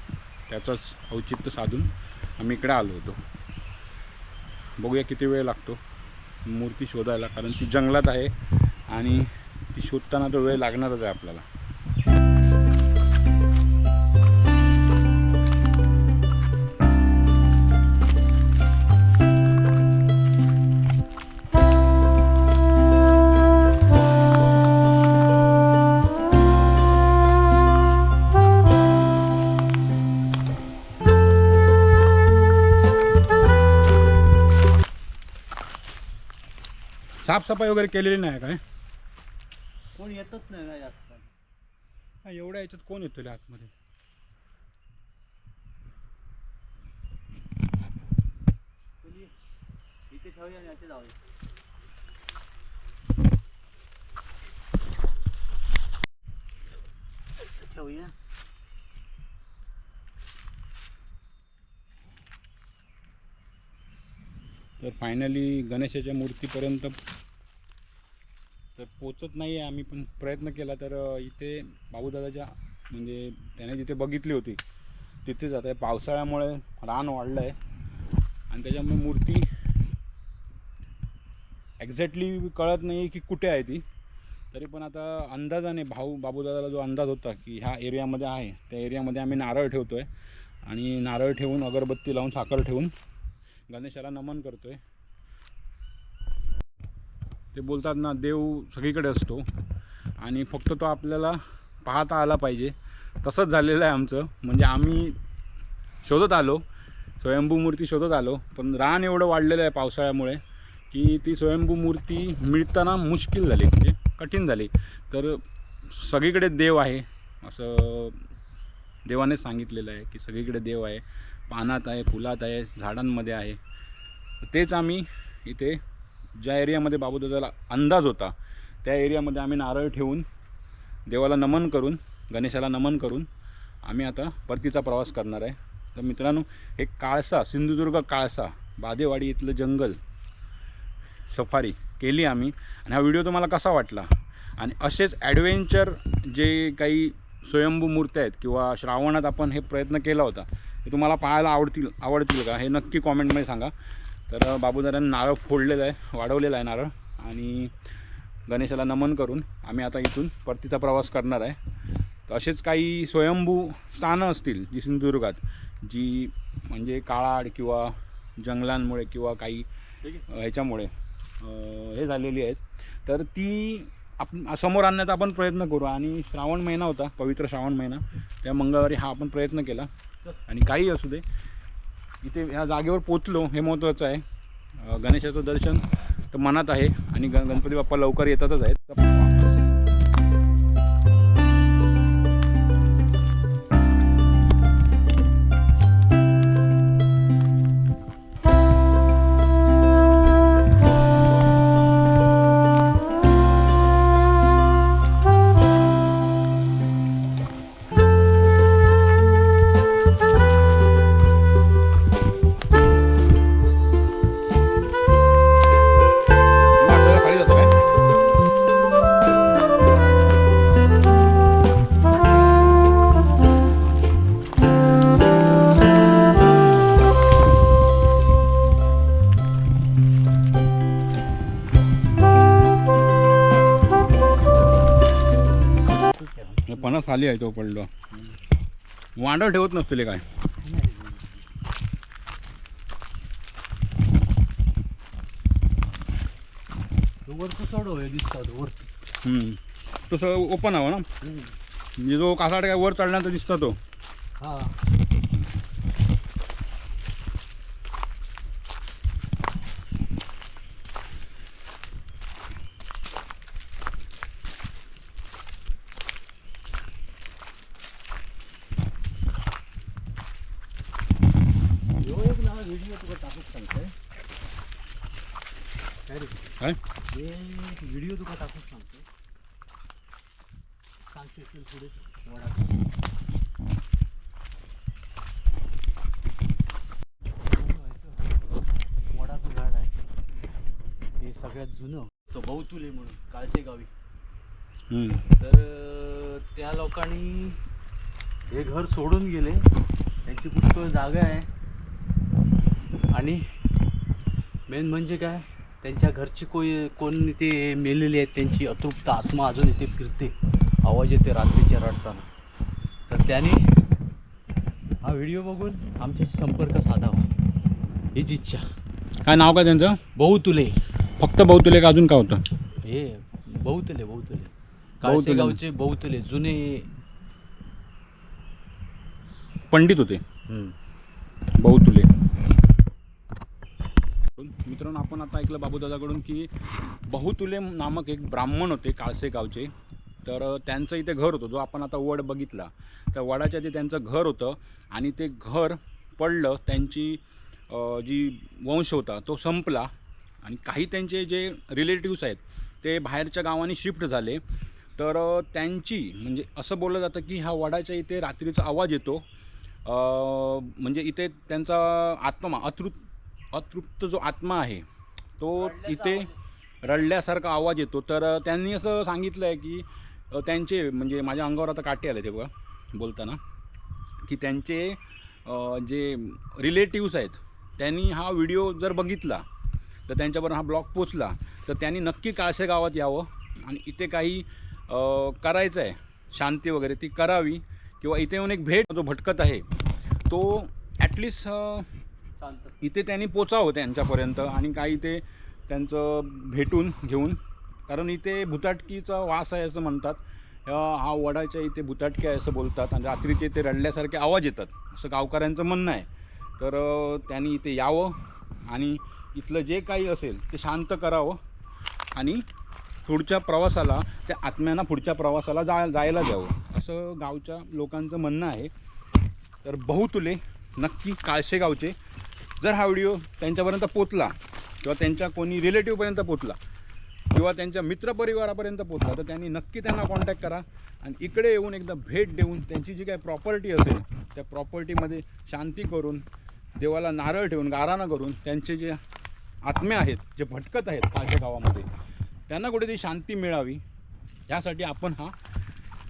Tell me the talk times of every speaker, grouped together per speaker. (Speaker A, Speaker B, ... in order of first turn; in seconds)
Speaker A: 0.5-3.2, 4.8-5.8, 6.4-8.3, 8.9-11.4, 37.2-38.6, 42.2-43.7, 64.8-67.0, 68.8-74.6, 75.2-77.6, 78.5-79.5, 81.8-83.8, 84.5-90.1, 90.6-92.9, 93.7-94.8, 97.5-99.5, 100.2-105.2, 106.0-106.6, 107.2-118.2, 119.0-123.6, 124.4-125.8, 126.4-130.2, 131.1-133.3, 133.8-140.0, 141.3-153.7, 154.3-157.8, 158.5-161.6, 162.3-179.9, 180.5-181.2, 182.2-184.2, 184.8-189.6, 216.8-217.7, 236.7-237.9, 239.2-240.2, 249.2-251.1, 252.0-253.8, 294.9-295.2, 319.2-320.0, 321.2-322.4, 325.0-325.6, 329.7-330.2, 331.6-332.1, 334.3-336.5, 337.1-339.7, 340.2-354.4, 355.0-359.2, 359.8-364.9, 365.4-366.3, 366.8-373.4, 374.2-379.4, 380.1-389.7, 390.3-391.9, 392.8-406.1, 406.6-411.4, 412.1-412.4, 413.1-418.7, 419.6-421.9, 422.6-426.6, 427.3-436.2, 436.8-439.0, 439.6-441.9, 442.5-443.8, 444.5-445.4
Speaker B: 40.0-41.3, 49.0-49.3, 50.1-51.2, 57.4-58.1, 236.1-237.0, 240.6-241.4, 247.2-248.9, 251.2-251.5, 254.4-254.8, 272.0-273.9, 276.1-276.4, 277.1-279.1, 281.1-282.8, 287.4-288.4, 289.1-289.9, 291.2-293.9, 295.3-297.6, 298.5-299.7, 300.2-301.5, 303.1-303.5, 304.7-312.3, 313.1-313.8, 315.0-317.3, 318.1-318.7, 320.1-320.8, 322.8-324.5, 325.0-326.9, 330.5-330.7, 365.5-366.3, 392.4-392.8